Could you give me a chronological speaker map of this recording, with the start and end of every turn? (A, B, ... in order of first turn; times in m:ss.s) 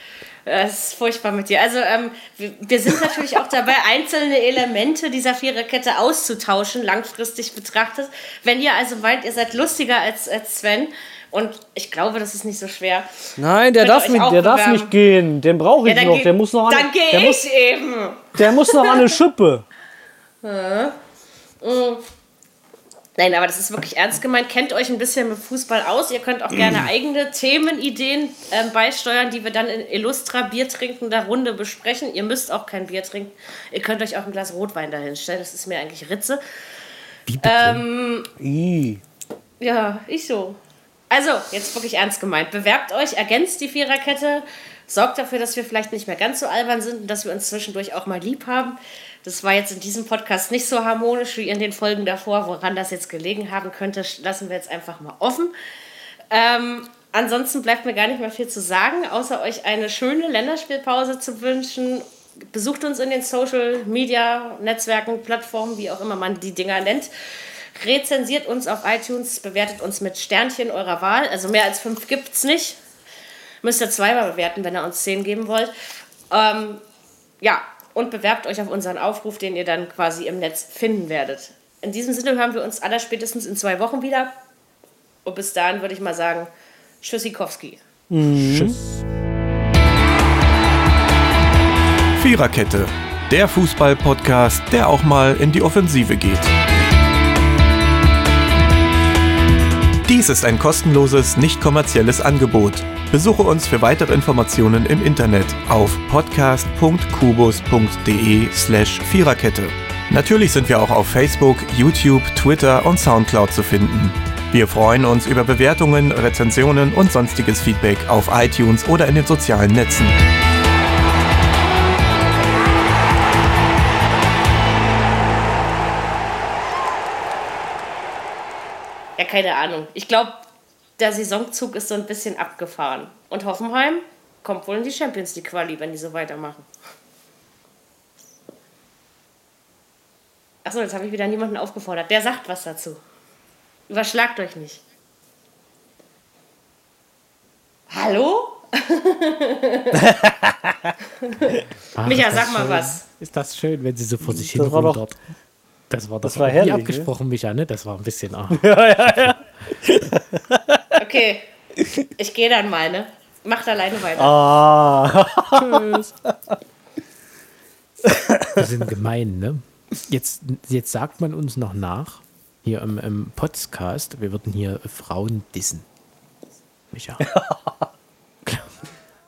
0:00.4-0:13.3 A
0:13.4-0:17.4 B
0:13.8-0:14.9 A
0:15.8-0:19.0 A
0:18.4-0:19.6 B
0:20.4-0:21.0 A
0:21.6-0:22.1 A
0:23.2-0:36.4 A
0:37.3-0:37.8 C
0:37.4-0:38.3 A
0:38.4-0:39.0 B
0:39.6-0:40.6 A
0:41.1-0:55.5 A
0:56.3-1:12.8 A
1:13.6-1:15.7 A
1:16.3-1:16.8 A
1:17.4-1:24.3 A
1:25.2-1:26.5 A
1:27.0-1:27.8 A
1:28.1-1:28.8 B
1:28.3-1:29.0 C
1:32.1-1:36.5 D
1:40.0-2:00.2 D
2:09.2-2:10.4 A
2:11.0-2:16.7 A
2:20.6-2:23.0 A
2:23.9-2:24.8 A
2:27.9-2:30.0 A
2:29.9-2:30.9 B
2:31.2-2:33.0 A
2:31.9-2:35.2 C
2:34.2-2:35.0 B
2:35.9-2:39.4 C
2:36.2-2:37.1 B
2:38.5-2:40.8 B
2:41.0-2:41.5 A
2:42.2-2:44.4 A
2:44.2-2:45.8 B
2:45.5-2:46.1 C
2:48.0-2:48.6 B
2:48.5-2:55.8 C
2:56.9-2:57.3 C
2:57.2-2:57.8 B
2:58.4-2:58.7 C